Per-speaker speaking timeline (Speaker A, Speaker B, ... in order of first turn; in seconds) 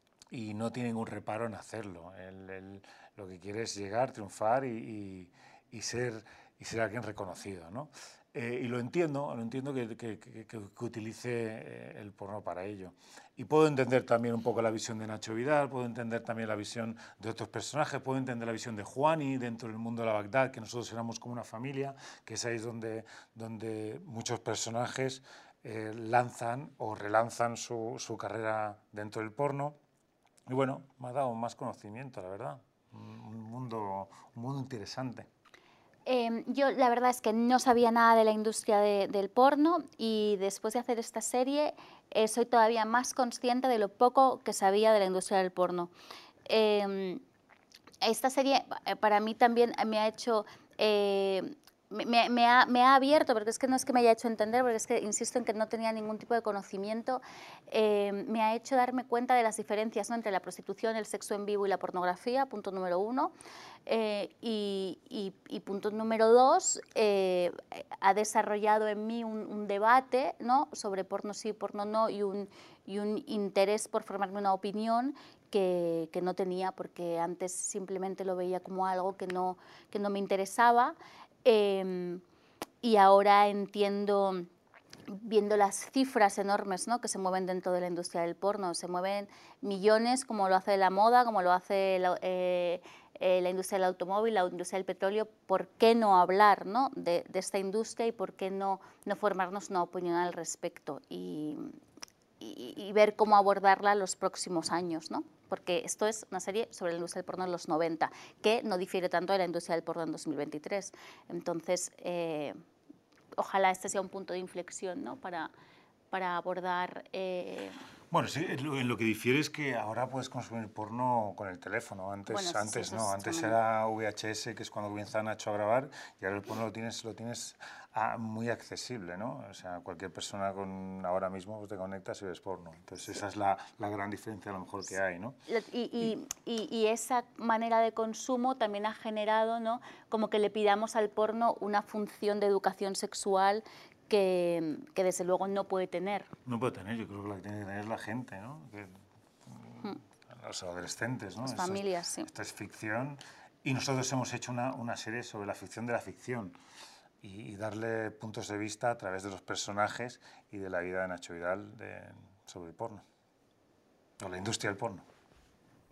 Speaker A: 0.3-29.8, 30.5-35.3, 118.1-135.4, 146.5-148.9, 149.4-156.6, 157.2-163.0, 164.2-165.1
Speaker B: 36.1-45.9, 46.5-47.2, 48.0-63.3, 63.9-82.2, 82.8-84.5, 85.1-101.8, 102.4-112.6, 113.4-115.5, 116.1-117.8, 122.3-123.6, 135.5-146.3, 151.4-152.3